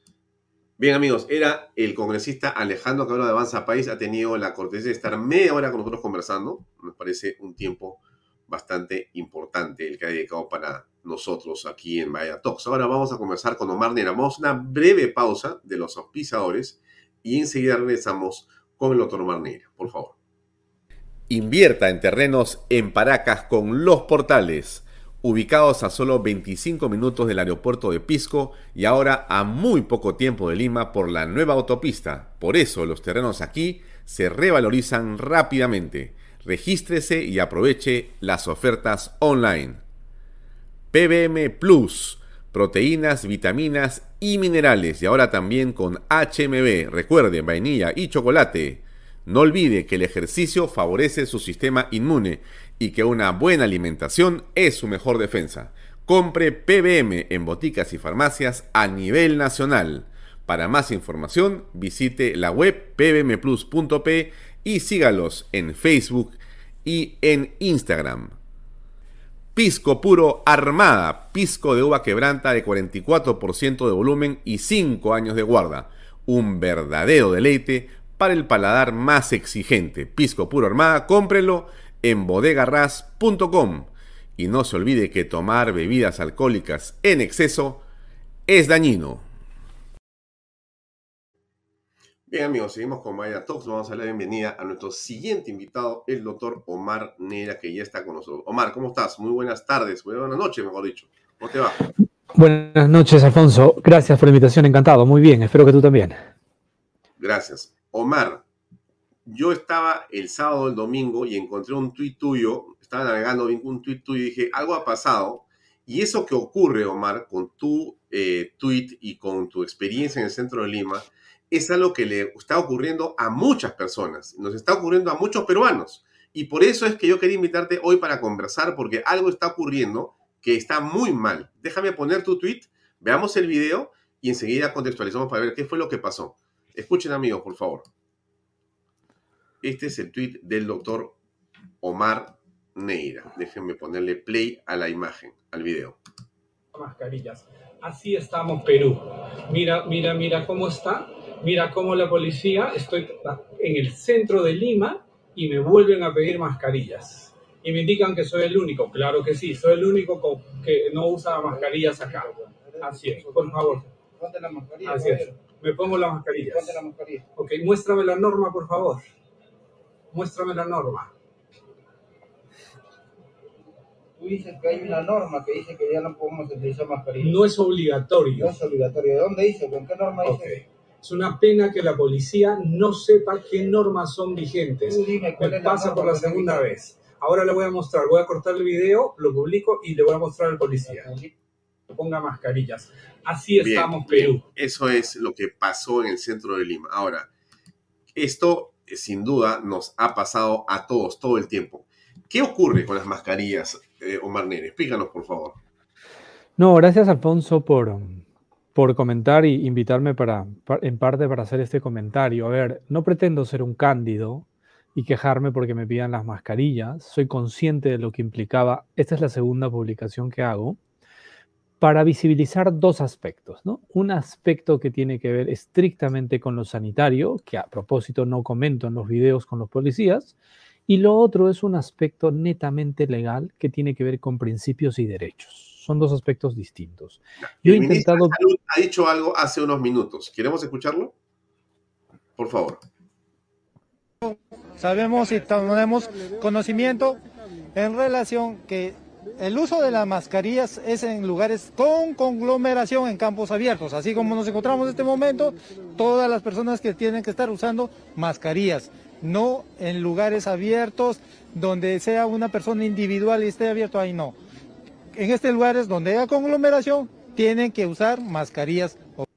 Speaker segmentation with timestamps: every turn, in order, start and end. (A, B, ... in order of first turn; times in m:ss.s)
0:00.8-0:20.2 A
0:21.3-0:39.8 A
0:40.9-1:08.4 A
1:09.6-1:27.8 A
1:28.5-1:29.2 A
1:32.3-1:41.8 A
1:42.4-1:46.2 B
1:47.2-1:48.4 A
1:49.3-2:17.9 A
2:19.6-2:21.2 A
2:21.8-2:26.0 A
2:26.7-2:42.3 C
2:41.3-2:45.4 D
2:42.8-2:43.9 C
2:44.8-2:46.8 C
2:46.4-2:47.3 D
2:47.4-2:49.0 C
2:50.1-2:51.1 C
2:54.2-2:57.4 D
2:57.2-2:58.6 C
2:58.3-3:00.6 D
3:00.2-3:11.1 C
3:04.8-3:06.7 D
3:10.8-3:11.3 D
3:11.9-3:14.4 C
3:13.6-3:17.3 A
3:18.2-3:25.6 A
3:26.6-3:28.2 B
3:28.8-3:40.8 B
3:41.8-3:50.4 B
3:50.9-3:58.4 B
3:57.6-4:01.1 A
4:02.4-4:02.8 A
4:04.2-4:07.2 E
4:07.7-4:24.4 E
4:25.1-4:29.2 E